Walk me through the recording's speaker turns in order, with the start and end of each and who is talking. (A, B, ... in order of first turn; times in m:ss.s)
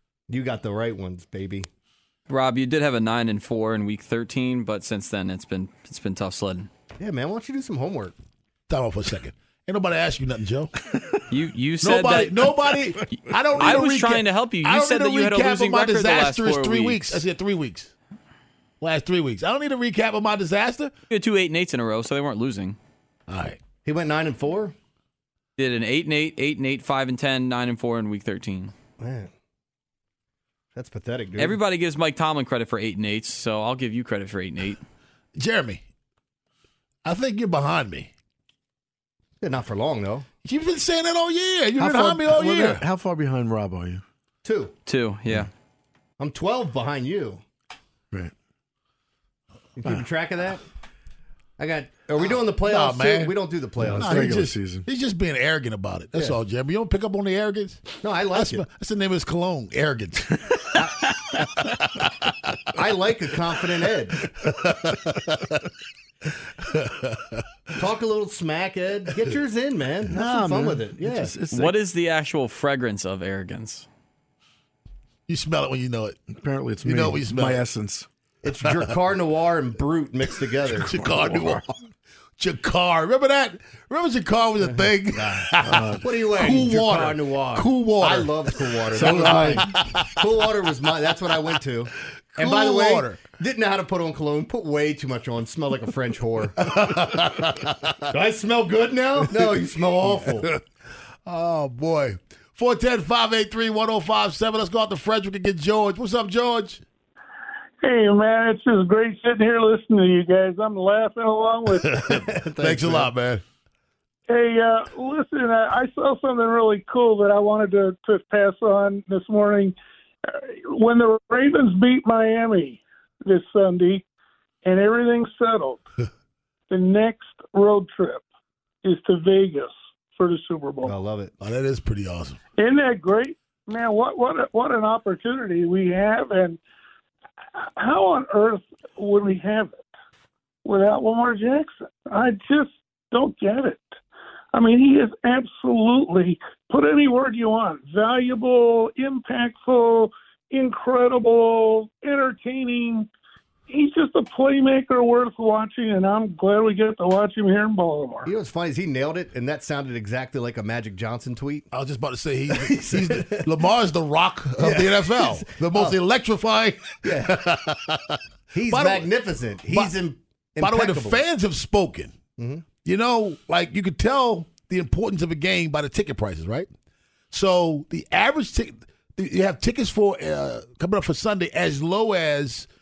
0:00.3-0:01.7 A
0:02.3-0:06.7 B
0:07.0-0:08.2 A
0:08.7-0:10.7 C
0:11.3-0:12.5 B
0:11.8-0:17.9 C
0:13.1-0:17.2 B
0:18.8-0:20.9 C
0:21.1-0:22.8 B
0:23.3-0:23.6 C
0:23.8-0:24.8 A
0:25.6-0:28.7 B
0:29.0-0:29.3 A
0:30.8-0:31.6 A
0:31.4-0:34.8 B
0:35.4-0:35.8 C
0:37.0-0:38.1 C
0:39.4-0:40.3 A
0:40.4-0:42.8 C
0:41.8-0:44.0 D
0:44.4-0:44.7 A
0:44.9-0:45.5 B
0:46.2-0:47.4 A
0:49.8-0:50.6 A
0:51.6-0:54.4 A
0:52.7-0:53.4 C
0:53.8-0:54.9 D
0:53.9-1:02.5 C
0:58.0-0:58.6 A
1:02.7-1:04.2 A
1:04.2-1:05.6 C
1:06.6-1:07.4 C
1:07.8-1:11.4 A
1:10.1-1:11.8 D
1:11.5-1:13.9 B
1:15.3-1:16.2 C
1:16.3-1:18.1 D
1:16.8-1:17.6 C
1:18.4-1:20.9 A
1:20.7-1:21.6 C
1:20.9-1:21.7 D
1:22.4-1:28.3 C
1:24.6-1:36.7 A
1:25.6-1:26.0 D
1:28.9-1:29.8 D
1:29.0-1:30.2 C
1:32.4-1:33.2 C
1:36.6-1:38.0 C
1:38.1-1:40.5 A
1:40.1-1:40.5 C
1:41.3-1:46.8 C
1:47.8-1:52.1 E
1:51.7-1:53.4 C
1:52.1-1:53.1 A
1:54.3-2:04.0 E
2:04.6-2:05.9 E
2:06.7-2:08.2 E
2:08.8-2:10.9 E
2:10.8-2:11.3 A
2:11.4-2:12.4 C
2:12.6-2:16.6 E
2:17.8-2:19.8 E
2:20.6-2:23.9 E
2:24.5-2:33.1 E
2:33.7-2:38.3 E
2:38.2-2:41.7 A
2:41.7-2:49.1 C
2:42.5-2:43.5 A
2:44.6-2:46.0 A
2:47.0-2:47.4 A
2:48.5-2:51.2 A
2:49.7-2:50.0 C
2:50.6-2:52.2 C
2:52.4-2:52.6 A
2:52.8-2:56.7 C
2:57.3-3:02.7 C